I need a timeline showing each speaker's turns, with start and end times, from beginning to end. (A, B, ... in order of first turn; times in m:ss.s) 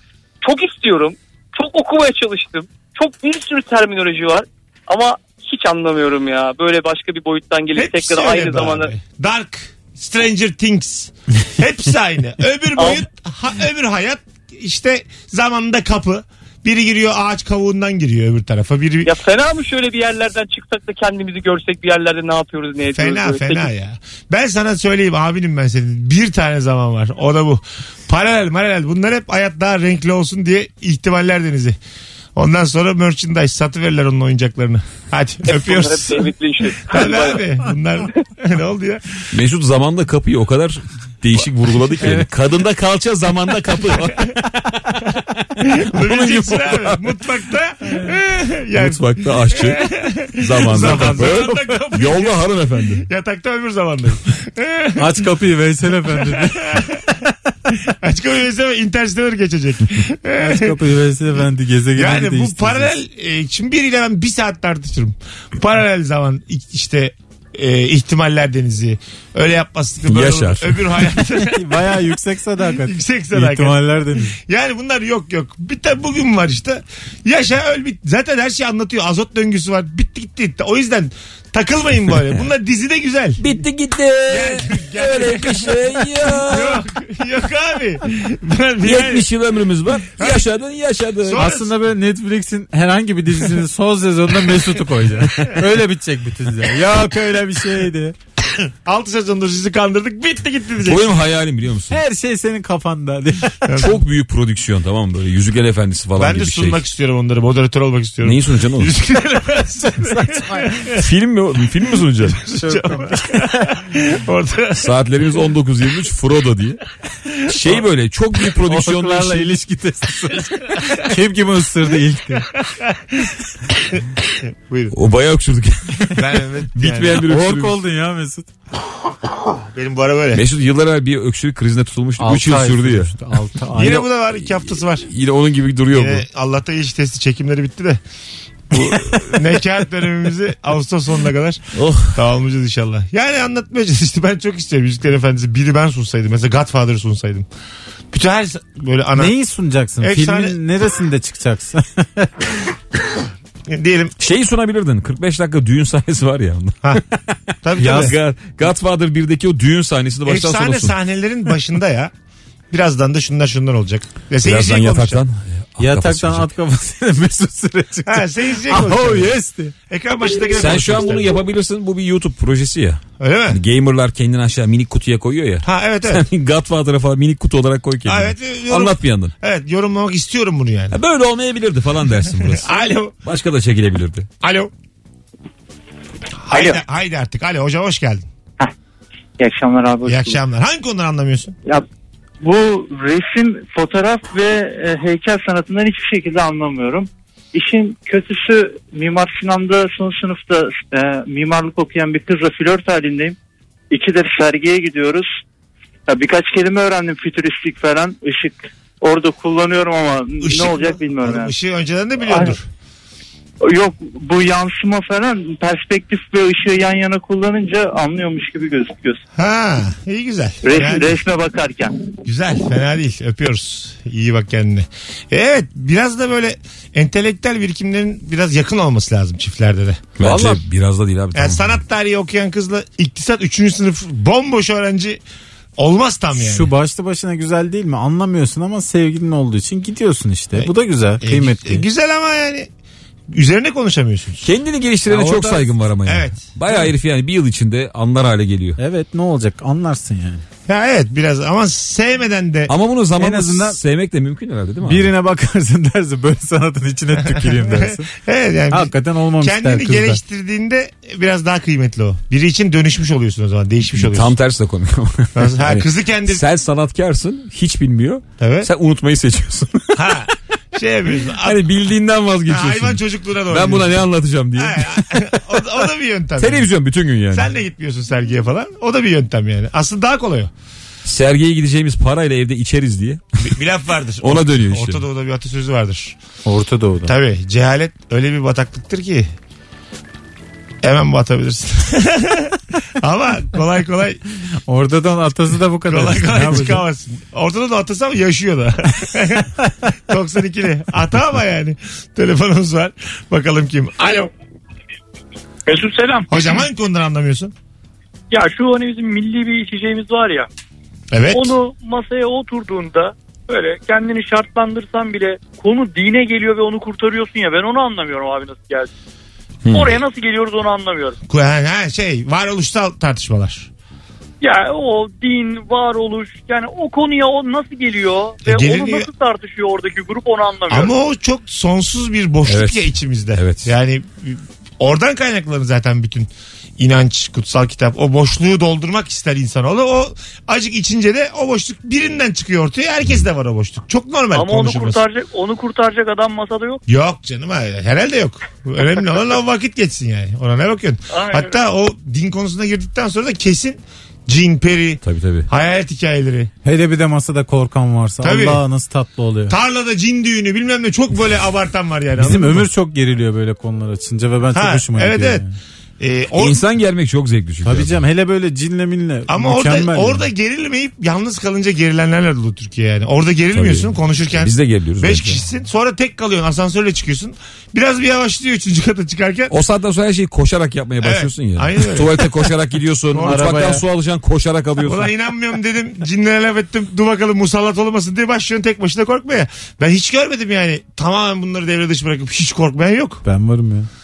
0:00.4-0:08.9 A
0:07.7-0:19.1 B
0:12.8-0:13.0 A
0:19.0-0:23.7 A
0:22.9-0:31.8 B
0:32.4-0:39.0 B
0:35.4-0:37.5 A
0:39.3-0:45.0 C
0:45.6-0:52.5 B
0:45.8-0:47.1 C
0:48.7-0:53.1 C
0:50.8-0:51.7 D
0:53.0-0:55.1 B
0:55.0-0:56.9 D
0:56.2-0:57.2 B
0:57.8-1:00.8 B
1:00.4-1:02.9 D
1:01.9-1:11.9 B
1:10.1-1:10.9 C
1:11.3-1:14.4 D
1:12.8-1:23.4 B
1:23.4-1:26.8 C
1:24.3-1:29.3 B
1:28.8-1:31.5 C
1:30.2-1:30.4 B
1:31.2-1:31.7 B
1:31.4-1:38.1 D
1:38.6-1:41.1 B
1:40.8-1:42.0 C
1:41.9-1:43.6 D
1:43.6-1:44.0 B
1:43.8-1:46.8 C
1:46.2-1:51.0 B
1:48.2-1:48.9 C
1:50.0-1:50.7 D
1:50.9-1:52.4 C
1:52.2-1:54.9 B
1:52.5-1:53.7 D
1:54.8-1:56.8 C
1:57.4-1:59.5 C
1:58.6-2:02.5 D
2:02.8-2:03.3 B
2:04.4-2:04.9 B
2:04.9-2:06.2 C
2:06.1-2:07.2 B
2:06.7-2:07.8 C
2:07.2-2:08.5 D
2:09.6-2:10.4 B
2:10.3-2:13.2 C
2:12.2-2:14.0 D
2:13.7-2:15.1 B
2:14.4-2:16.2 C
2:15.9-2:18.0 B
2:18.7-2:27.5 B
2:21.7-2:22.2 C
2:28.1-2:29.3 B
2:29.2-2:32.3 D
2:30.0-2:30.6 B
2:33.7-2:34.1 B
2:34.2-2:37.0 C
2:37.6-2:38.2 B
2:37.8-2:38.1 D
2:37.8-2:40.9 C
2:40.2-2:42.1 B
2:42.7-2:45.2 B
2:44.4-2:46.5 C
2:45.8-2:49.7 D
2:48.1-2:49.3 B
2:49.9-2:51.4 B
2:50.5-2:59.3 C
2:53.2-2:53.6 B
2:55.6-2:56.2 B
2:58.0-3:01.0 B
3:00.9-3:04.3 C
3:02.4-3:03.1 B
3:04.4-3:04.7 B
3:06.4-3:08.2 B
3:09.4-3:10.4 E
3:10.0-3:11.6 B
3:12.4-3:23.4 E
3:23.9-3:25.3 E
3:26.1-3:31.5 E
3:30.4-3:32.7 B
3:32.3-3:32.5 E
3:33.6-3:39.2 E
3:39.4-3:41.2 B
3:40.6-3:42.0 E
3:42.2-3:50.1 B
3:50.2-3:51.8 C
3:50.2-3:50.6 D
3:51.3-3:55.2 B
3:55.8-3:56.7 B
3:56.4-4:01.8 D
4:00.6-4:02.7 B
4:03.3-4:04.4 B
4:04.4-4:08.8 C
4:05.1-4:05.7 D
4:06.0-4:06.5 B
4:08.8-4:10.4 D
4:10.7-4:12.7 B
4:12.7-4:15.1 C
4:13.2-4:13.8 D
4:14.8-4:18.1 D
4:17.2-4:24.3 B
4:18.7-4:20.2 D
4:24.0-4:30.2 C
4:25.3-4:26.4 B
4:28.4-4:28.7 B
4:29.9-4:31.6 B
4:31.2-4:35.4 C
4:32.5-4:36.7 B
4:36.4-4:37.5 C
4:37.3-4:40.5 B
4:41.0-4:43.2 C
4:43.4-4:46.2 B
4:44.2-4:45.0 C
4:46.4-4:47.1 D
4:47.0-4:49.3 B
4:50.8-4:54.2 B
4:54.7-4:56.8 D
4:55.9-5:04.3 B
5:05.7-5:06.3 F
5:06.3-5:07.5 B
5:08.3-5:10.5 F
5:11.1-5:11.6 B
5:11.3-5:18.9 F
5:19.6-5:20.0 C
5:19.7-5:21.2 F
5:21.3-5:23.7 B
5:24.4-5:30.9 F
5:28.4-5:29.1 B
5:30.7-5:45.0 B
5:32.4-5:33.7 C
5:44.3-5:46.8 F
5:46.9-5:56.5 B
5:51.1-5:51.6 F
5:55.0-5:55.5 C
5:56.6-5:59.6 D
5:58.2-5:58.6 B
5:59.5-6:02.7 B
6:02.2-6:05.5 D
6:04.5-6:05.4 B
6:06.0-6:06.6 B
6:06.3-6:08.0 C
6:07.6-6:10.2 D
6:09.3-6:19.6 B
6:13.5-6:15.4 C
6:19.5-6:25.1 C
6:21.0-6:22.5 B
6:23.1-6:23.8 D
6:24.8-6:33.2 B
6:33.2-6:33.9 D